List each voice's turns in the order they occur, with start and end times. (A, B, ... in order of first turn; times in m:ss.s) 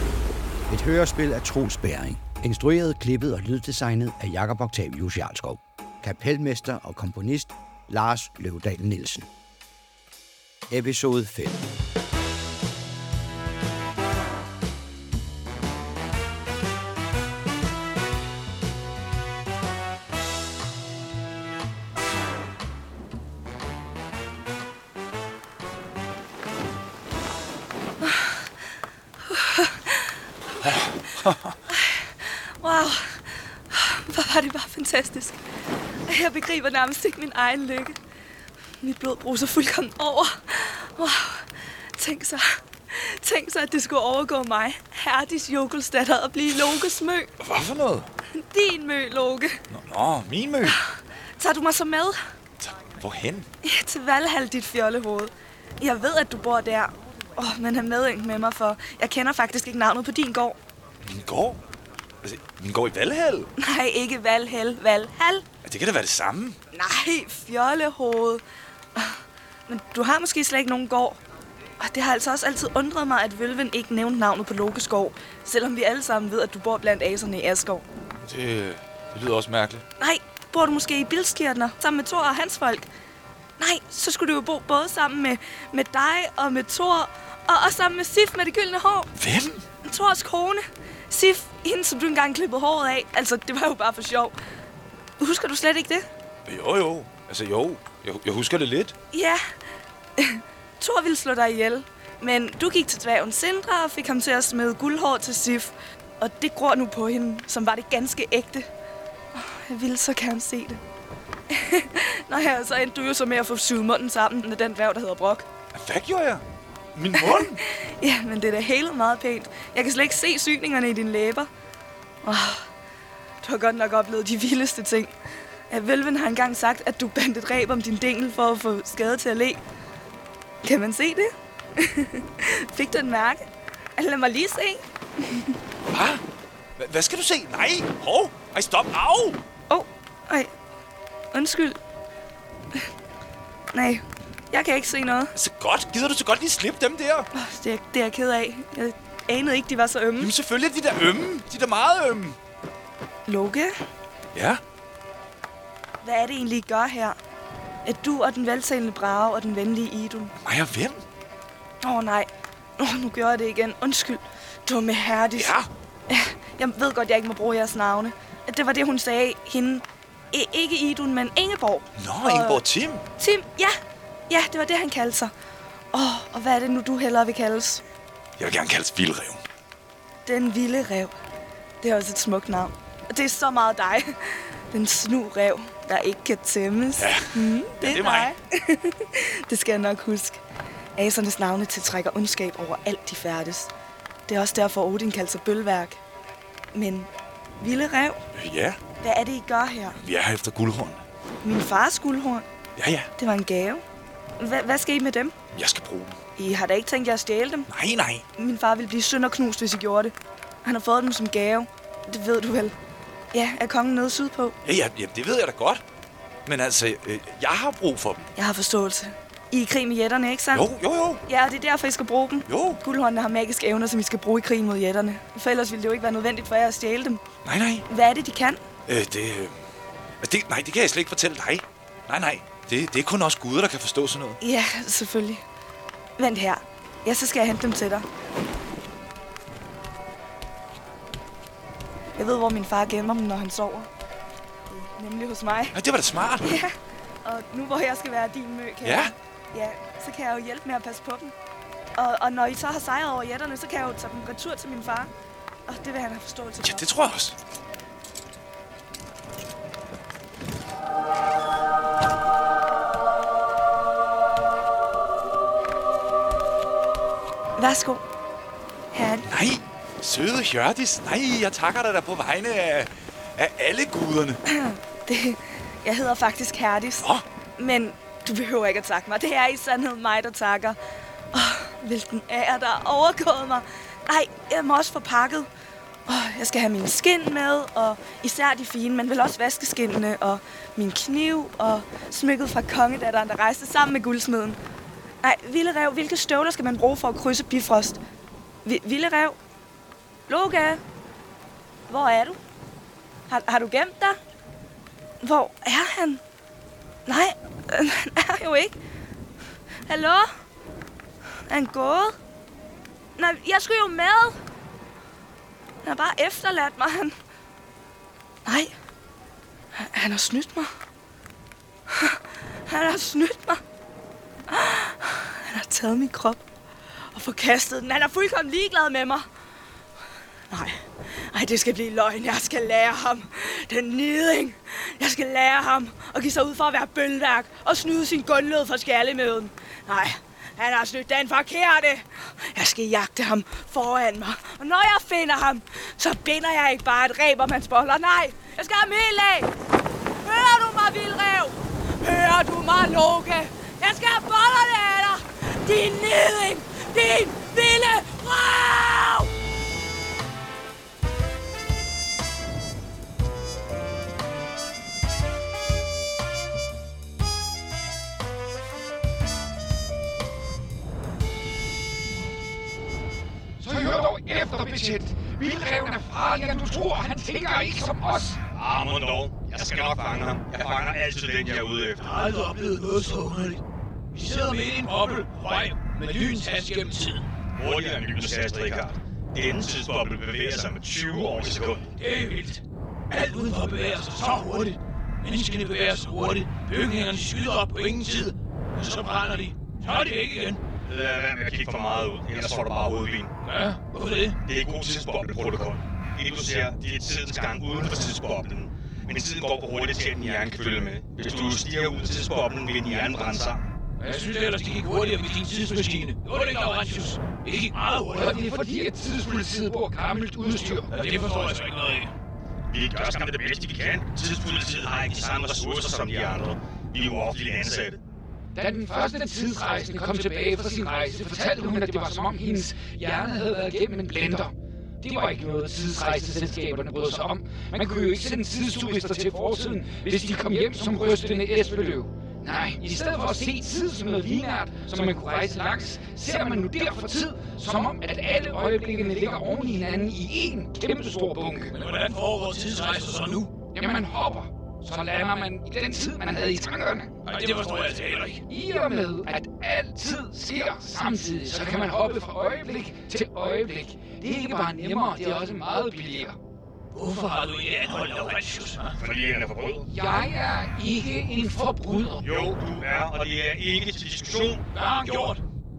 0:00.7-0:09.3 A
0:10.7-0:11.6 A
0:28.0-0:28.4 B
0:29.3-0:30.1 B
0:30.6-0:31.5 C
0:31.7-0:35.4 B
0:36.1-0:38.0 B
0:38.8-0:47.3 B
0:47.4-0:48.1 C
0:48.4-0:49.6 B
0:49.7-0:50.8 C
0:51.4-0:52.2 B
0:52.6-0:53.5 C
0:53.6-1:00.6 B
1:01.0-1:01.6 C
1:02.2-1:03.5 C
1:03.6-1:05.4 B
1:05.6-1:06.6 C
1:06.7-1:08.4 B
1:08.9-1:11.2 B
1:11.8-1:17.8 B
1:18.2-1:19.8 C
1:20.0-1:22.9 B
1:23.6-1:29.1 B
1:29.2-1:29.6 C
1:29.8-1:34.3 B
1:35.2-1:36.1 B
1:36.4-1:38.9 C
1:39.1-1:39.4 B
1:40.2-1:48.7 B
1:49.3-1:50.8 B
1:51.5-1:55.4 B
1:55.7-1:56.4 C
1:56.9-1:57.6 C
1:57.1-2:01.5 B
2:02.2-2:02.7 B
2:03.4-2:05.1 B
2:05.7-2:09.6 B
2:10.6-2:13.4 B
2:14.0-2:15.6 B
2:15.9-2:16.2 C
2:16.8-2:19.4 C
2:19.7-2:20.5 B
2:21.3-2:21.8 B
2:23.7-2:25.3 B
2:25.3-2:27.3 C
2:27.3-2:30.3 B
2:30.2-2:32.4 C
2:33.3-2:33.7 B
2:34.3-2:34.6 C
2:36.0-2:37.2 B
2:37.8-2:40.3 B
2:40.4-2:41.0 C
2:41.8-2:45.5 B
2:45.3-2:45.7 C
2:46.1-2:52.6 B
2:52.0-2:53.0 C
2:53.2-2:53.8 B
2:54.3-2:55.3 B
2:55.9-2:57.8 B
2:58.4-2:59.4 C
3:00.2-3:01.1 B
3:01.8-3:10.4 B
3:07.0-3:08.3 C
3:11.0-3:13.7 B
3:14.3-3:16.0 B
3:16.7-3:17.1 B
3:17.6-3:18.2 B
3:18.3-3:18.8 C
3:19.0-3:20.0 B
3:19.9-3:21.0 C
3:21.4-3:22.4 B
3:22.8-3:23.1 C
3:23.2-3:23.8 B
3:24.4-3:25.3 B
3:25.5-3:26.2 C
3:26.4-3:27.7 B
3:27.7-3:28.2 C
3:28.4-3:30.1 B
3:30.6-3:32.7 B
3:33.3-3:34.6 B
3:34.6-3:35.8 C
3:36.4-3:38.3 C
3:38.4-3:40.7 B
3:40.5-3:41.2 C
3:41.3-3:47.2 B
3:42.5-3:42.8 C
3:47.4-3:47.8 C
3:47.9-3:48.6 B
3:48.8-3:49.6 C
3:50.2-3:54.4 C
3:54.4-3:55.4 B
3:56.2-3:58.0 B
4:02.2-4:03.9 B
4:04.7-4:05.7 B
4:05.7-4:06.6 C
4:06.4-4:11.3 B
4:08.8-4:09.1 C
4:12.0-4:15.1 B
4:15.7-4:16.8 B
4:16.6-4:17.4 C
4:27.6-4:28.0 B
4:28.9-4:29.2 B
4:29.2-4:34.4 C
4:34.5-4:37.1 B
4:37.0-4:37.2 C
4:37.6-4:40.8 B
4:41.3-4:45.5 B
4:46.1-4:54.6 B
4:55.2-4:58.0 B
4:58.6-4:59.4 B
5:00.3-5:00.8 B
5:01.9-5:02.4 B
5:03.3-5:04.2 B
5:05.2-5:06.2 B
5:07.0-5:08.7 B
5:09.9-5:10.3 B
5:11.5-5:12.1 B
5:13.2-5:14.4 B
5:15.8-5:17.1 B
5:18.4-5:18.7 B
5:19.8-5:20.7 B
5:21.9-5:23.6 B
5:24.5-5:26.4 B
5:27.1-5:29.3 B
5:30.5-5:49.5 B
5:50.2-5:59.3 B
6:13.6-6:18.4 D
6:18.5-6:22.1 E
6:22.0-6:23.6 F
6:24.1-6:27.2 F
6:27.6-6:32.0 E
6:32.0-6:40.6 F
6:40.8-6:43.3 E
6:43.4-6:44.4 F
6:44.4-6:53.6 E
6:54.0-6:58.4 F
6:58.1-7:00.9 D
7:00.9-7:02.1 F
7:02.7-7:08.0 E
7:08.5-7:31.7 D
7:31.7-7:33.5 F
7:33.7-7:37.1 D
7:37.2-7:38.4 F
7:38.5-7:46.4 D
7:46.9-7:48.9 F
7:49.0-7:49.8 E
7:49.8-7:52.3 D
7:52.2-7:54.6 E
7:54.7-7:55.4 F